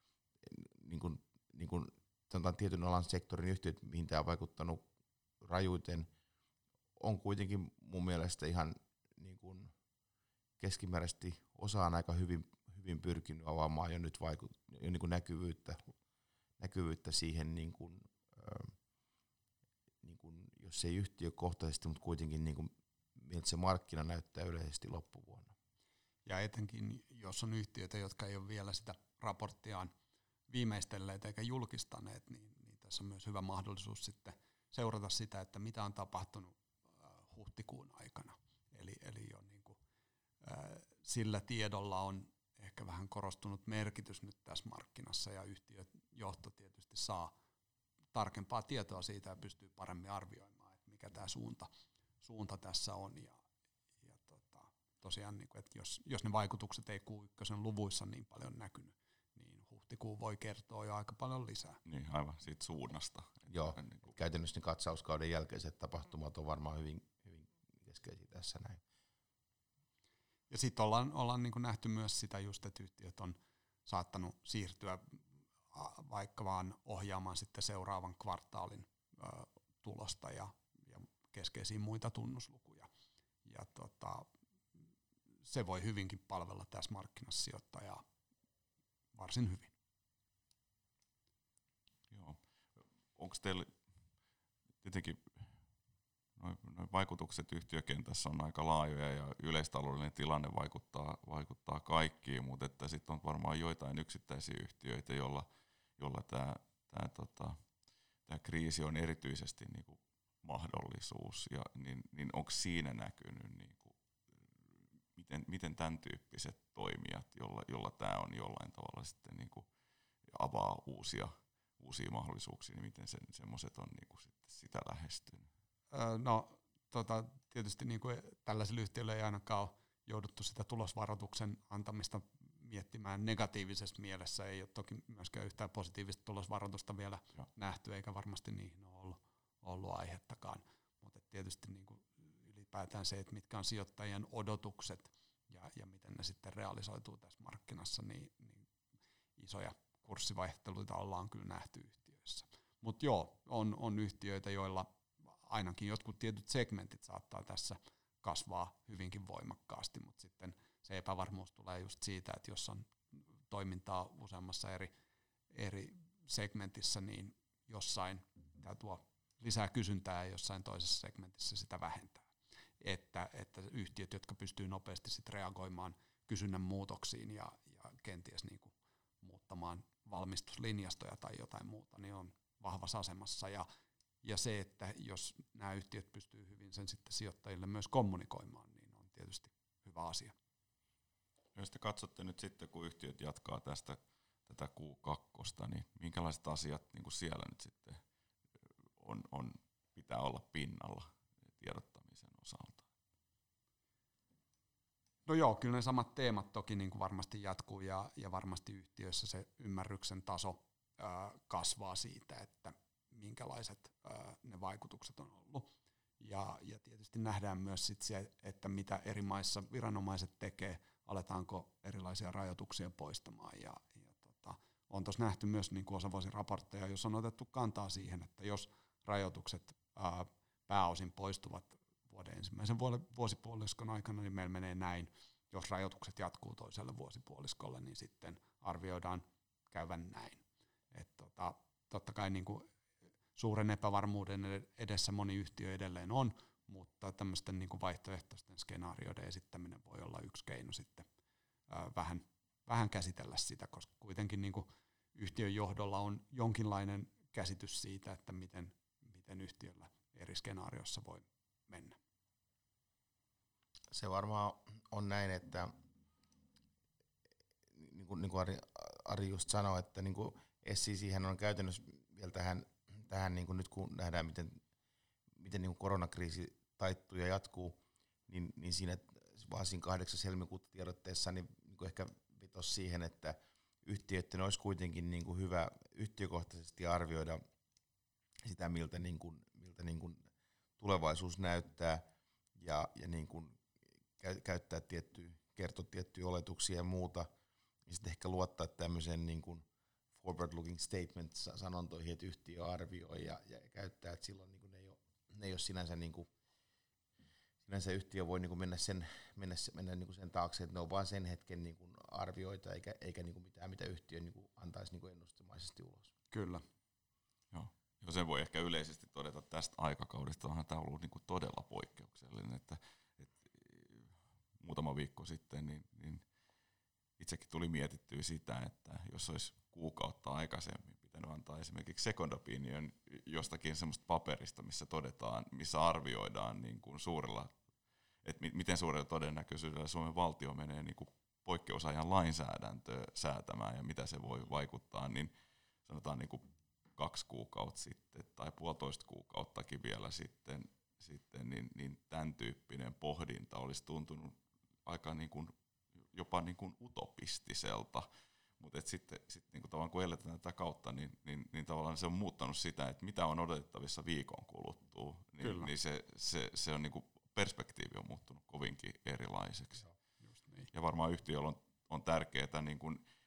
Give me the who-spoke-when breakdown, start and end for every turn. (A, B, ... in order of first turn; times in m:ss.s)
0:00.4-0:04.8 A
0:05.4-0:06.1 A
0:07.0-0:09.7 A
0:10.6-0:15.9 A
0:16.6-0:18.7 A
0:20.0-0:25.5 A
0:26.2-0:29.9 B
0:30.5-0:39.8 B
0:40.4-0:47.3 B
0:48.1-0:51.7 B
0:52.2-0:53.4 B
0:54.0-1:01.8 B
1:01.8-1:04.1 C
1:03.5-1:08.8 A
1:10.5-1:15.2 B
1:15.7-1:22.9 B
1:23.4-1:24.3 B
1:25.4-1:28.0 B
1:29.1-1:29.7 B
1:32.1-1:32.4 C
1:33.1-1:33.7 C
1:34.8-1:35.5 C
1:36.4-1:45.4 C
1:46.0-1:47.6 C
1:48.3-1:54.5 C
1:55.1-1:59.6 C
2:00.3-2:05.5 C
2:05.9-2:28.7 B
2:29.4-2:44.9 B
2:45.5-2:52.3 B
2:52.8-3:03.6 B
3:04.2-3:10.3 B
3:11.5-3:18.0 C
3:19.0-3:22.8 C
3:25.2-4:02.6 B
4:03.3-4:11.0 B
4:11.7-4:22.0 B
4:23.9-4:25.7 A
4:27.7-4:34.6 A
4:35.4-4:47.4 A
4:48.4-4:50.2 A
4:50.8-4:52.0 A
4:52.6-4:53.6 A
4:54.2-4:57.3 A
4:57.9-4:59.6 A
5:00.1-5:06.3 A
5:07.6-5:16.1 A
5:16.3-5:16.6 B
5:17.5-5:26.2 C
5:27.2-5:37.5 C
5:38.2-5:45.3 C
5:45.8-5:55.5 C
5:56.1-5:58.0 C
5:58.6-6:09.9 C
6:05.4-6:05.7 B
6:10.2-6:10.7 B
6:10.7-6:13.0 C